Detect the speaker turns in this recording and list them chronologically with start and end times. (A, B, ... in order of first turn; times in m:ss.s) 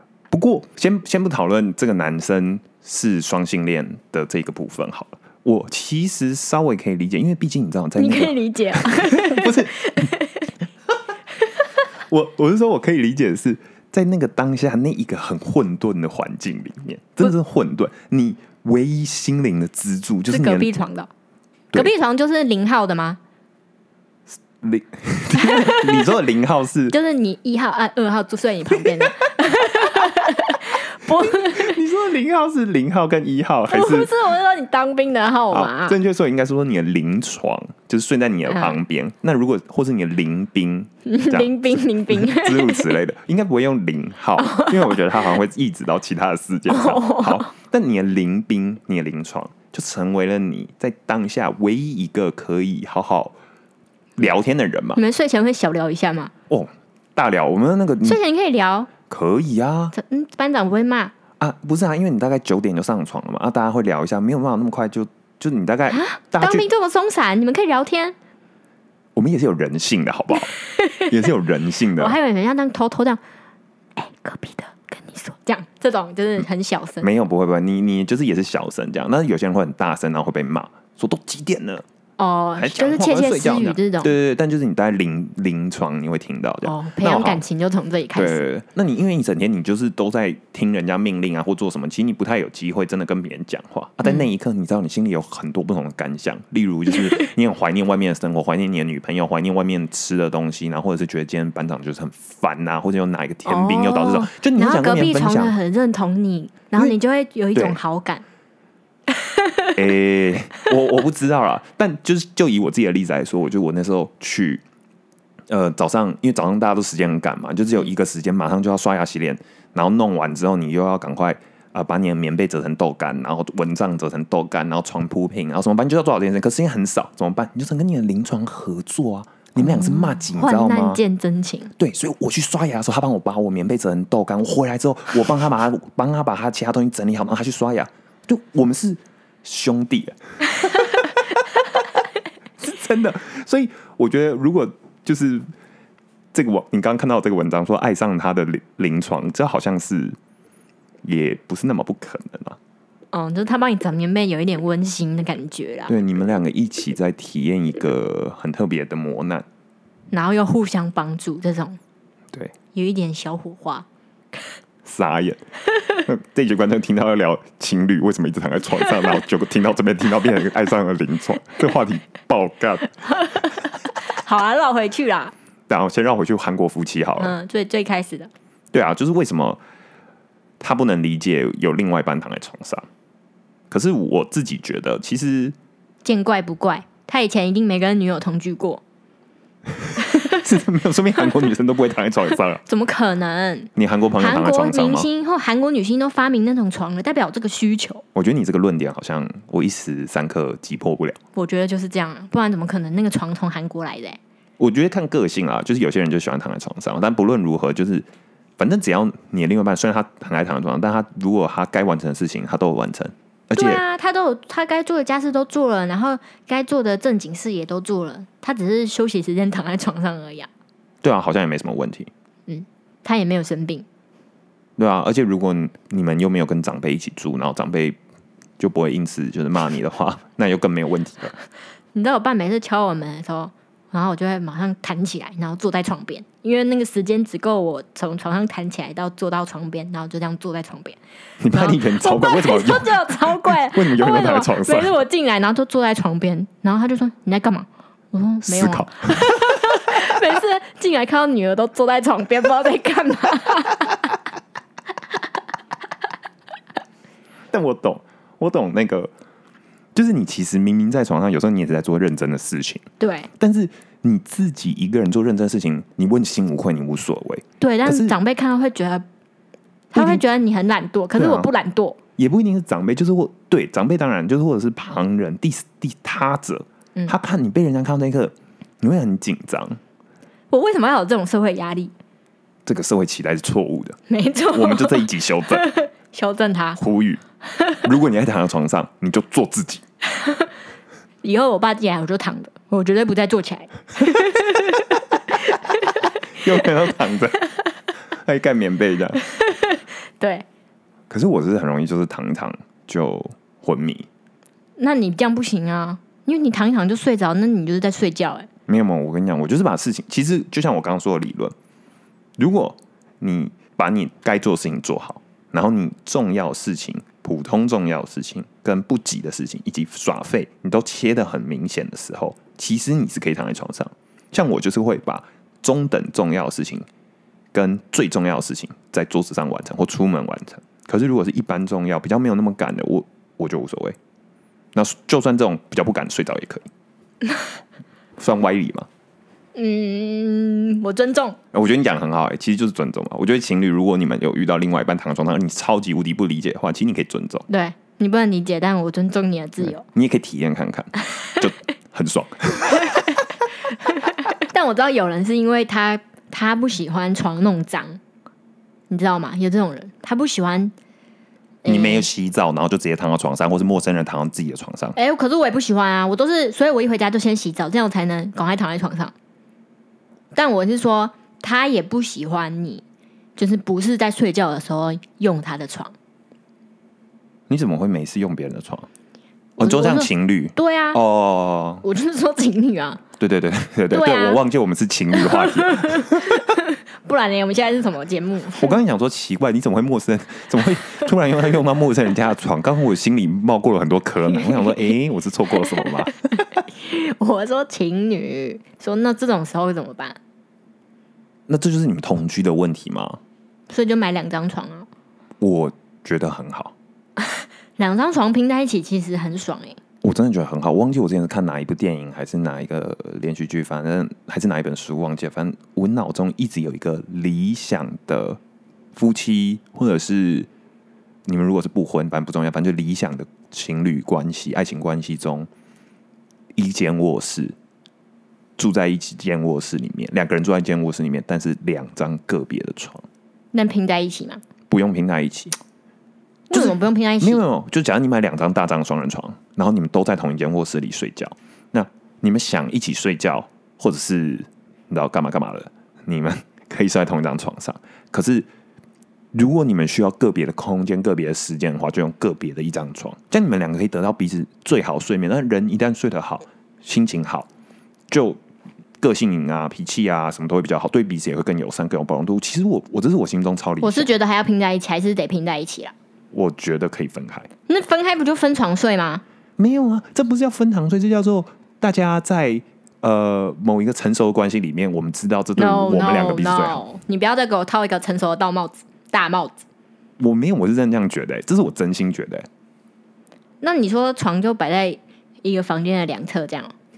0:00.3-0:10.1 A
0:08.0-0:10.5 B
0:12.1-0:20.7 A
0:20.3-0:21.1 B
0:21.7-0:23.2 B
0:24.6-0:27.0 A
0:25.3-0:26.1 B
0:26.9-0:31.8 B
0:31.2-0:34.1 A
0:33.7-0:36.0 B
0:35.5-0:53.4 A
0:38.5-0:38.8 B
0:41.1-0:43.0 B
0:44.4-0:44.8 B
0:46.7-0:47.5 B
0:54.2-0:55.0 A
0:55.0-0:56.3 B
0:56.5-0:58.2 A
0:58.0-0:58.9 B
0:59.1-0:59.9 A
0:59.9-1:01.1 B
1:01.4-1:06.7 A
1:05.9-1:08.2 B
1:09.2-1:12.2 A
1:10.8-1:11.1 B
1:12.0-1:13.2 B
1:14.0-1:17.1 B
1:17.0-1:21.8 A
1:22.2-1:24.1 B
1:22.6-1:27.4 A
1:26.6-1:28.4 B
1:28.2-1:45.6 A
1:43.5-1:48.2 B
1:49.2-1:49.8 B
1:49.8-1:54.6 A
1:55.5-2:11.0 A
2:09.6-2:11.7 B
2:11.8-2:21.2 A
2:20.7-2:21.1 B
2:22.6-2:25.5 A
2:26.3-2:30.2 A
2:31.0-2:32.6 A
2:33.1-2:35.9 B
2:35.9-2:39.5 A
2:40.1-2:41.8 B
2:42.7-2:43.9 B
2:44.8-2:45.4 A
2:46.0-2:53.1 A
2:53.1-2:55.3 B
2:55.7-2:57.4 A
2:57.2-2:58.3 B
2:58.7-2:59.6 A
3:00.6-3:02.9 A
3:03.7-3:05.6 A
3:06.0-3:08.8 B
3:09.8-3:12.6 A
3:10.0-3:10.4 B
3:12.7-3:18.0 B
3:13.8-3:15.1 A
3:18.2-3:21.2 A
3:21.4-3:24.2 B
3:24.6-3:28.1 A
3:28.6-3:33.8 A
3:33.5-3:40.5 B
3:41.0-3:42.1 A
3:42.5-3:43.8 B
3:44.8-3:48.0 A
3:48.6-3:51.4 A
3:51.9-4:01.0 B
4:01.4-4:05.0 A
4:01.5-4:14.0 B
4:08.4-4:09.3 A
4:17.5-4:19.1 A
4:20.0-4:22.8 A
4:23.0-4:23.3 B
4:23.4-4:28.2 A
4:27.6-4:29.0 B
4:29.9-4:32.0 B
4:30.0-4:30.2 A
4:31.1-4:31.5 A
4:32.2-4:39.8 A
4:40.5-4:41.9 B
4:42.7-4:44.0 A
4:44.1-4:46.8 B
4:44.5-4:45.7 A
4:46.8-4:47.2 A
4:47.8-4:49.8 A
4:51.2-4:54.8 B
4:56.4-4:57.4 A
4:58.2-4:59.2 A
4:59.4-5:00.4 B
5:01.1-5:04.1 A
5:04.8-5:08.5 B
5:08.7-5:11.6 A
5:12.4-5:26.9 A
5:27.5-5:34.0 A
5:34.7-5:36.7 A
5:38.2-5:38.9 A
5:39.6-5:41.4 B
5:41.5-5:47.5 A
5:47.5-5:49.8 B
5:49.6-5:53.2 A
5:54.0-5:58.0 B
5:58.9-6:00.7 B
6:01.6-6:02.1 B
6:01.6-6:05.0 A
6:05.0-6:09.1 B
6:10.3-6:12.8 B
6:13.4-6:15.9 B
6:17.5-6:18.9 A
6:19.6-6:21.8 A
6:19.6-6:21.0 B
6:21.8-6:23.0 B
6:23.2-6:26.6 A
6:23.9-6:24.4 B
6:25.1-6:28.7 B
6:28.6-6:36.2 A
6:36.4-6:40.2 B
6:41.5-6:43.2 A
6:43.7-6:44.9 B
6:45.4-6:46.8 A
6:47.3-6:49.8 B
6:50.0-6:58.4 A
6:58.9-7:00.5 A
7:01.3-7:05.5 A
7:06.6-7:07.6 A
7:08.6-7:13.1 A
7:13.5-7:14.4 B
7:14.7-7:15.6 A
7:16.5-7:17.4 B
7:16.5-7:28.5 A
7:29.3-7:37.5 A
7:38.1-7:38.4 A
7:39.0-7:44.1 A
7:43.8-7:45.9 B
7:46.3-7:47.5 A
7:47.7-7:49.2 B
7:49.6-7:56.8 A
7:55.6-7:59.6 B
8:00.2-8:02.5 A
8:03.6-8:06.7 B